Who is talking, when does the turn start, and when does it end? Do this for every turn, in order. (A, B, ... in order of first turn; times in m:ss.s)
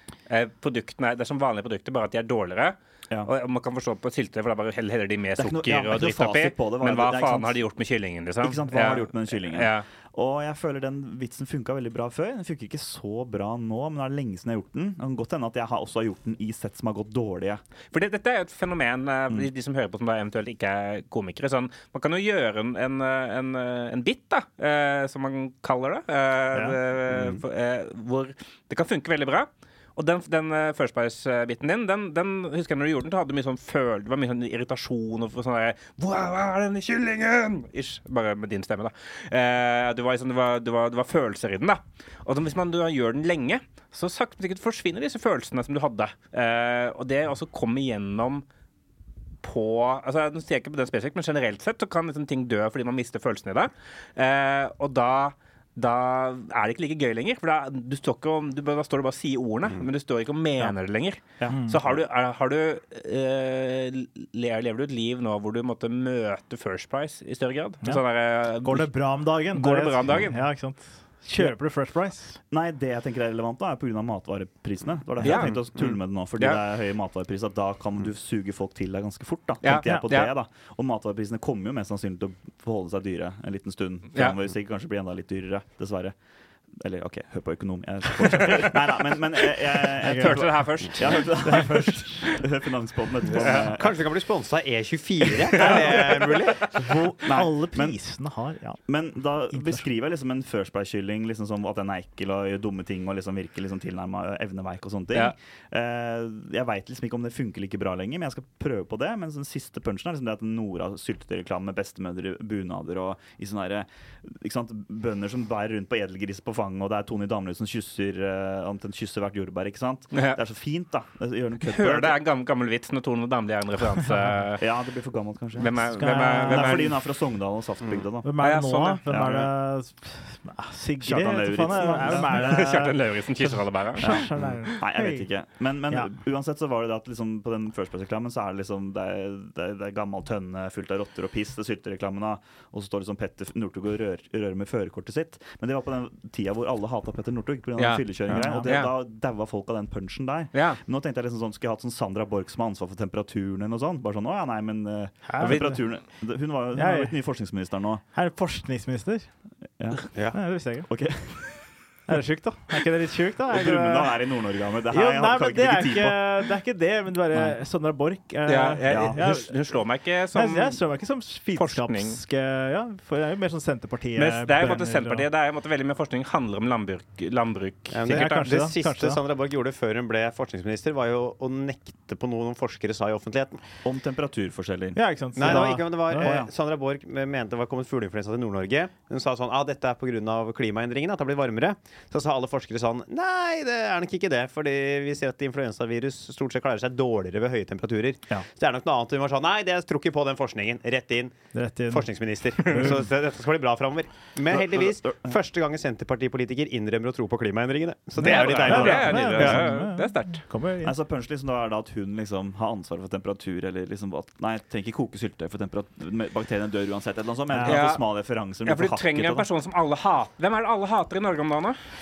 0:00.3-0:09.8 A
0:05.4-0:07.6 B
0:08.4-0:17.6 B
0:17.9-0:48.4 A
0:49.4-1:10.4 A
1:01.4-1:01.7 B
1:01.5-1:01.8 C
1:08.6-1:12.4 C
1:12.5-1:26.1 B
1:15.2-1:15.8 A
1:19.6-1:20.3 A
1:26.8-1:34.0 B
1:30.0-1:30.4 C
1:30.0-1:31.8 A
1:31.4-1:32.2 C
1:33.4-1:33.7 A
1:33.5-1:36.7 D
1:35.6-1:38.8 C
1:37.2-1:38.0 B
1:38.8-2:02.2 B
1:39.5-1:39.8 C
2:00.1-2:00.4 A
2:01.6-2:04.6 A
2:04.6-2:08.4 B
2:05.6-2:07.0 A
2:06.0-2:06.8 C
2:08.2-2:15.3 C
2:08.4-2:09.0 A
2:09.0-2:09.5 B
2:11.0-2:12.8 B
2:12.1-2:14.2 A
2:14.0-2:38.0 B
2:27.8-2:28.9 A
2:28.3-2:28.7 C
2:30.5-2:30.8 A
2:35.3-2:35.8 C
2:35.4-2:35.8 A
2:36.7-2:37.1 C
2:38.1-2:39.3 C
2:39.8-2:40.1 B
2:40.3-2:40.9 C
2:40.9-2:41.5 B
2:42.1-2:44.1 C
2:43.5-2:46.5 B
2:44.9-2:49.5 C
2:48.4-2:50.8 A
2:48.9-2:49.2 B
2:50.3-2:55.2 C
2:51.5-2:52.2 A
2:54.2-2:58.4 A
2:57.9-3:03.6 D
2:58.1-2:59.2 C
3:03.8-3:06.5 B
3:04.9-3:06.3 C
3:05.4-3:29.7 D
3:21.5-3:22.1 C
3:22.6-3:23.0 C
3:24.5-3:25.4 B
3:28.2-3:30.9 C
3:28.2-3:30.4 A
3:30.8-3:39.5 B
3:37.5-3:37.8 C
3:37.6-3:38.0 A
3:38.6-3:41.8 A